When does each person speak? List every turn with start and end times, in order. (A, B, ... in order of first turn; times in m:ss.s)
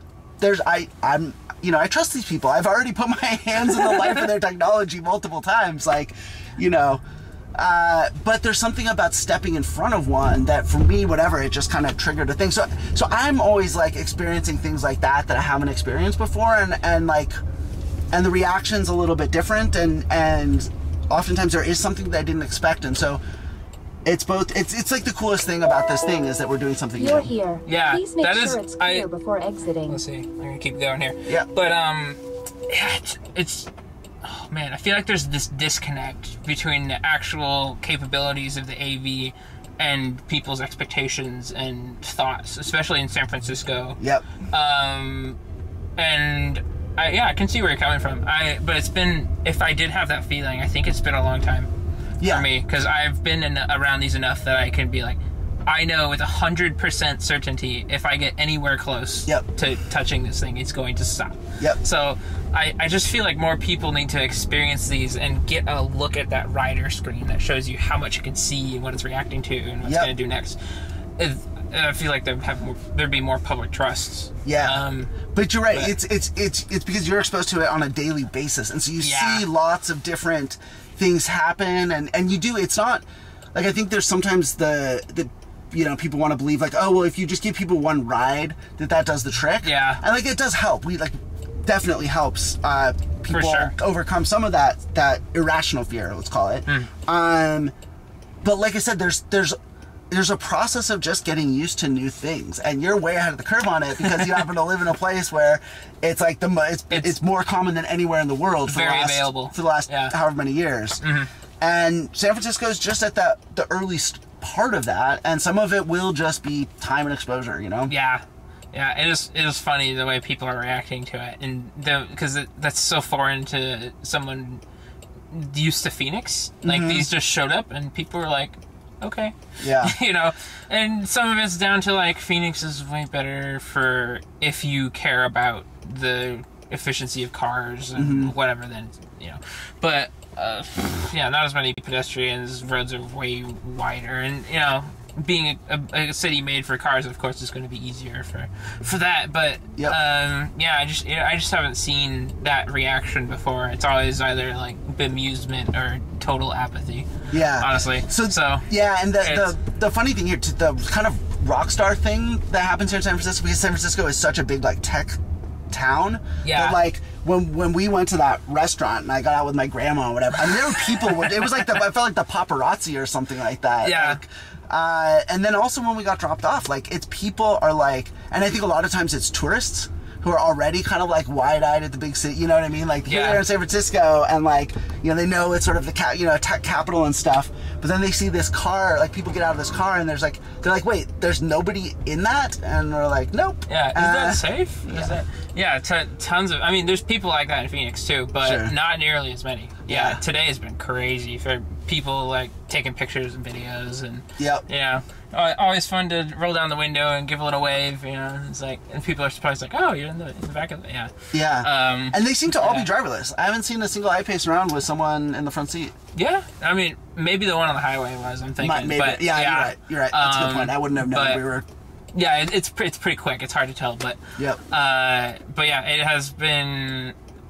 0:00.4-0:07.0 A
0:03.7-0:04.2 B
0:07.5-0:17.4 A
0:18.1-0:23.2 A
0:24.0-0:27.3 A
0:27.0-0:30.0 C
0:27.6-0:29.0 B
0:29.9-0:33.7 B
0:34.2-0:45.4 B
0:44.0-0:44.3 A
0:46.0-0:51.7 B
0:52.2-0:52.5 A
0:52.2-1:10.6 B
1:09.8-1:10.1 A
1:11.2-1:15.2 B
1:14.4-1:37.7 A
1:19.0-1:19.5 B
1:29.6-1:30.0 B
1:33.3-1:33.7 B
1:38.4-1:39.6 A
1:40.1-1:51.0 A
1:44.0-1:44.4 B
1:46.9-1:47.2 B
1:48.7-1:50.1 B
1:51.0-1:51.3 B
1:51.6-1:57.9 A
1:57.9-2:04.6 B
2:05.3-2:38.7 B
2:06.6-2:07.1 A
2:09.6-2:09.9 A
2:17.9-2:18.3 A
2:37.3-2:45.2 A
2:39.2-2:39.6 B
2:45.7-3:15.2 A
2:46.4-2:46.8 B
2:53.8-2:54.2 B
3:03.1-3:03.4 B
3:13.7-3:32.9 B
3:18.4-3:18.7 A
3:19.8-3:20.2 A
3:24.4-3:24.6 A
3:31.3-3:35.9 A
3:36.1-3:41.4 B
3:38.6-3:41.6 A
3:42.1-3:47.1 B